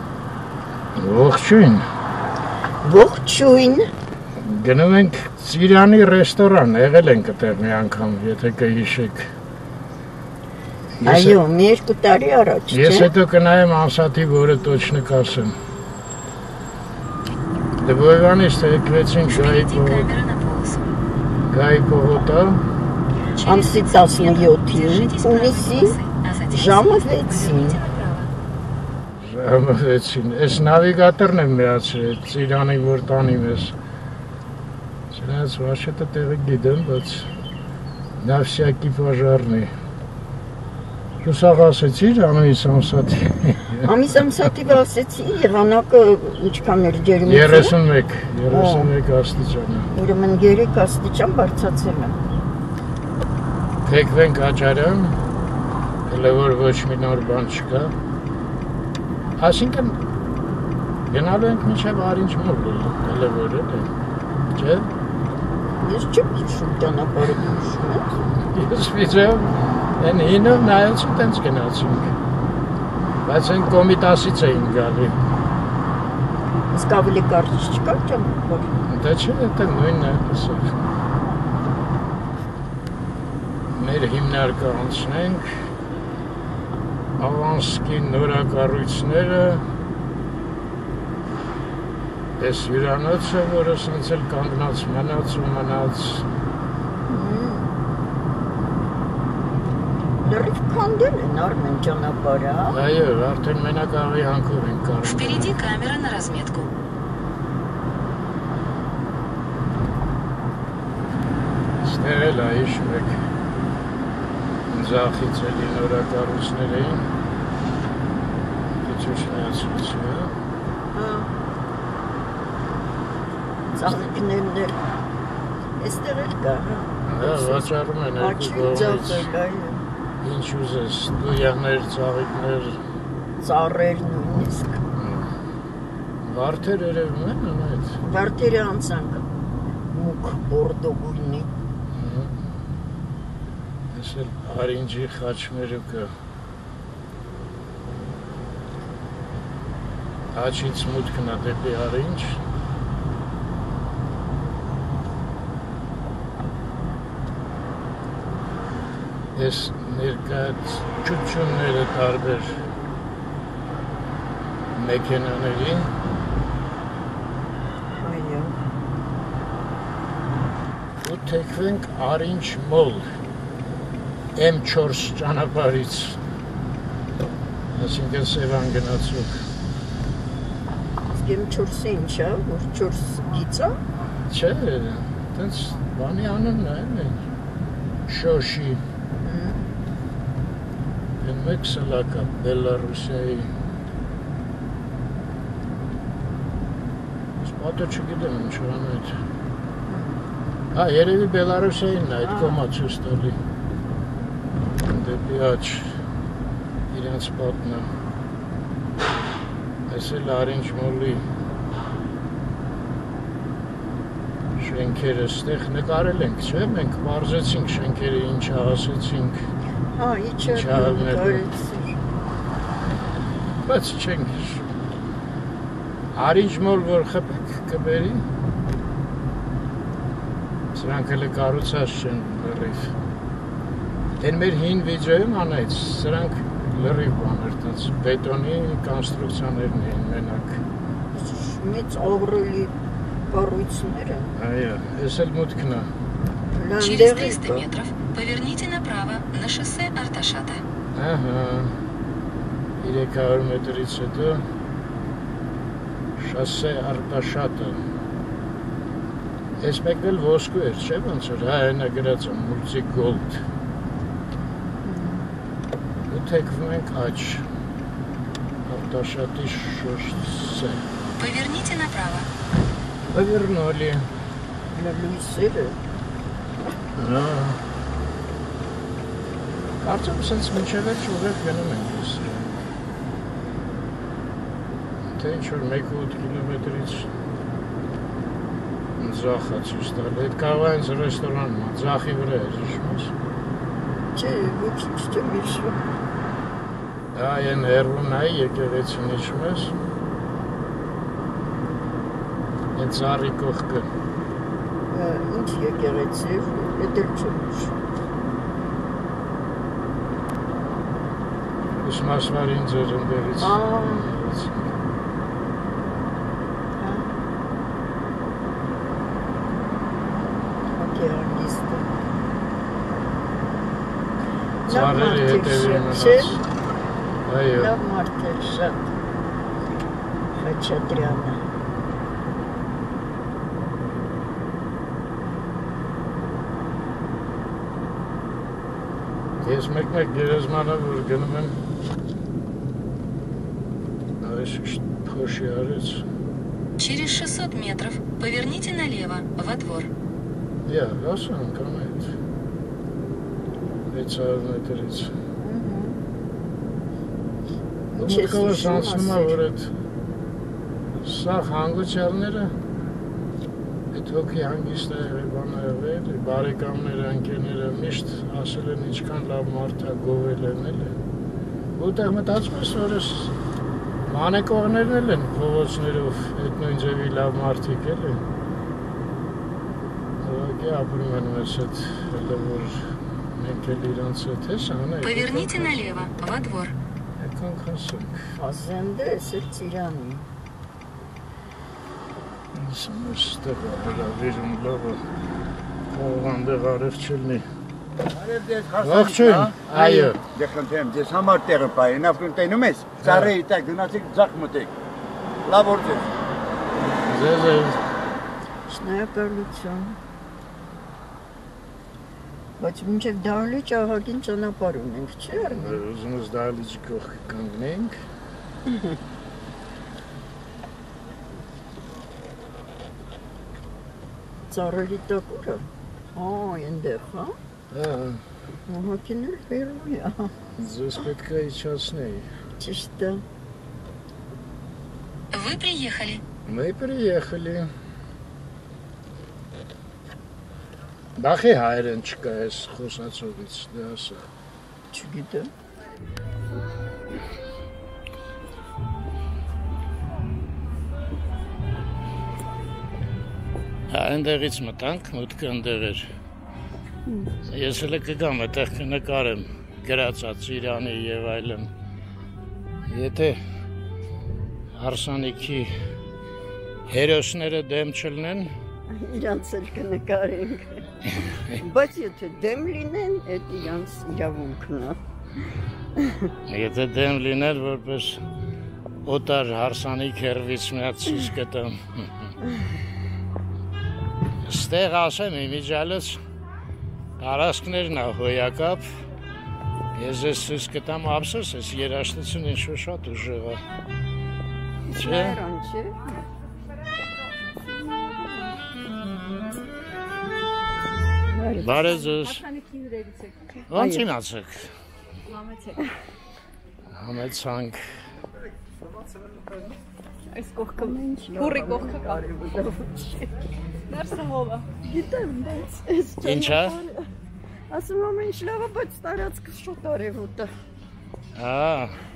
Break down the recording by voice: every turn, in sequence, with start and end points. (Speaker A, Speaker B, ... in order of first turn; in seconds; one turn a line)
Speaker A: 0.9-1.8
Speaker B: 2.8-3.9
Speaker A: 4.4-9.3
Speaker A: 11.0-11.4
Speaker B: 11.0-13.1
Speaker A: 12.7-15.5
Speaker A: 17.8-20.1
Speaker C: 19.2-20.9
Speaker A: 21.5-22.6
Speaker C: 23.4-28.3
Speaker B: 23.4-25.9
Speaker B: 26.5-27.8
Speaker A: 29.2-33.7
Speaker A: 35.1-37.3
Speaker A: 38.2-39.7
Speaker A: 41.2-43.9
Speaker B: 43.9-47.7
Speaker A: 47.2-49.9
Speaker B: 48.5-48.9
Speaker B: 49.9-52.2
Speaker A: 53.8-55.2
Speaker A: 56.1-57.9
Speaker A: 59.4-60.0
Speaker A: 61.1-63.9
Speaker A: 64.5-64.9
Speaker B: 65.8-68.1
Speaker A: 68.5-72.1
Speaker A: 73.2-75.1
Speaker B: 76.7-78.7
Speaker A: 78.9-80.7
Speaker A: 83.8-85.5
Speaker A: 87.2-89.6
Speaker A: 92.4-96.2
Speaker B: 97.1-97.7
Speaker B: 100.2-102.8
Speaker A: 102.7-105.5
Speaker C: 105.0-106.7
Speaker A: 111.8-113.2
Speaker A: 114.7-117.0
Speaker A: 118.8-120.3
Speaker B: 120.9-121.3
Speaker B: 123.7-124.8
Speaker B: 125.8-129.8
Speaker A: 127.1-129.3
Speaker A: 130.2-132.8
Speaker B: 133.4-134.8
Speaker A: 135.0-135.3
Speaker A: 136.2-138.0
Speaker B: 138.0-139.2
Speaker B: 139.9-141.5
Speaker A: 141.9-142.4
Speaker A: 143.9-146.1
Speaker A: 150.3-152.4
Speaker A: 159.3-162.6
Speaker A: 164.8-165.9
Speaker B: 168.0-168.6
Speaker A: 171.0-173.1
Speaker A: 174.3-176.2
Speaker A: 177.7-179.4
Speaker B: 181.1-183.8
Speaker A: 184.3-187.2
Speaker A: 188.1-188.8
Speaker B: 189.2-189.6
Speaker A: 191.2-193.5
Speaker A: 197.4-199.1
Speaker B: 199.9-200.2
Speaker A: 200.7-203.3
Speaker B: 202.2-202.6
Speaker A: 204.8-205.9
Speaker A: 206.9-207.9
Speaker A: 209.9-211.2
Speaker A: 214.6-219.4
Speaker B: 219.9-222.0
Speaker A: 220.5-221.4
Speaker A: 223.7-224.7
Speaker A: 226.1-228.2
Speaker A: 230.7-232.9
Speaker A: 234.2-240.6
Speaker B: 241.1-242.7
Speaker B: 243.3-244.3
Speaker A: 244.3-245.9
Speaker B: 246.5-247.7
Speaker C: 246.8-250.6
Speaker A: 250.9-251.7
Speaker A: 252.8-254.4
Speaker A: 256.2-257.8
Speaker A: 259.6-263.4
Speaker B: 264.8-265.3
Speaker A: 266.1-267.4
Speaker A: 268.6-270.9
Speaker C: 271.2-272.3
Speaker A: 273.1-274.1
Speaker B: 274.7-275.8
Speaker A: 276.9-277.6
Speaker A: 279.8-282.6
Speaker A: 285.1-287.1
Speaker A: 289.0-293.1
Speaker B: 294.1-295.8
Speaker A: 297.1-299.7
Speaker A: 302.7-303.9
Speaker B: 304.9-307.7
Speaker A: 311.8-314.7
Speaker B: 313.4-314.1
Speaker B: 316.8-317.1
Speaker B: 320.8-322.0
Speaker B: 324.7-326.4
Speaker A: 324.7-326.4
Speaker A: 327.3-327.7
Speaker B: 327.5-328.9
Speaker B: 330.4-331.4
Speaker A: 339.4-341.6
Speaker A: 344.2-346.0
Speaker C: 346.8-349.9
Speaker A: 350.6-352.1
Speaker A: 353.9-355.1
Speaker B: 355.4-356.0
Speaker B: 357.9-359.4
Speaker A: 357.9-359.7
Speaker A: 361.0-362.5
Speaker A: 363.9-371.0
Speaker A: 371.8-373.3
Speaker A: 374.1-378.2
Speaker A: 380.2-382.8
Speaker A: 383.4-385.9
Speaker C: 385.0-386.7
Speaker A: 387.2-388.2
Speaker B: 388.4-390.2
Speaker A: 392.5-395.0
Speaker A: 395.9-397.4
Speaker D: 398.1-399.6
Speaker A: 398.8-400.2
Speaker B: 399.7-400.1
Speaker D: 400.2-404.7
Speaker A: 403.0-403.3
Speaker D: 405.4-406.1
Speaker A: 407.1-407.8
Speaker B: 408.7-410.0
Speaker B: 412.6-415.8
Speaker A: 415.4-417.9
Speaker B: 418.7-419.0
Speaker B: 424.5-427.4
Speaker A: 427.7-428.2
Speaker B: 428.7-430.3
Speaker A: 430.6-432.2
Speaker B: 432.6-433.2
Speaker C: 435.3-436.2
Speaker A: 436.4-437.7
Speaker A: 441.2-444.2
Speaker B: 444.9-445.5
Speaker A: 453.9-456.1
Speaker A: 457.5-461.7
Speaker A: 462.9-463.4
Speaker A: 464.8-465.7
Speaker A: 466.9-468.5
Speaker B: 468.9-470.8
Speaker B: 471.6-475.0
Speaker B: 476.0-476.3
Speaker A: 476.5-478.2
Speaker A: 479.0-482.3
Speaker A: 484.4-486.2
Speaker A: 487.2-488.8
Speaker A: 489.9-493.6
Speaker B: 494.9-496.0
Speaker A: 494.9-495.4
Speaker B: 501.3-501.8
Speaker A: 501.6-502.4
Speaker E: 501.7-503.6
Speaker A: 503.7-504.7
Speaker B: 503.7-504.0
Speaker E: 505.3-505.8
Speaker A: 506.9-507.8
Speaker E: 510.3-512.2
Speaker B: 510.7-513.3
Speaker E: 513.9-514.7
Speaker B: 514.8-517.1
Speaker A: 516.2-516.8
Speaker B: 517.7-520.5
Speaker A: 521.4-521.9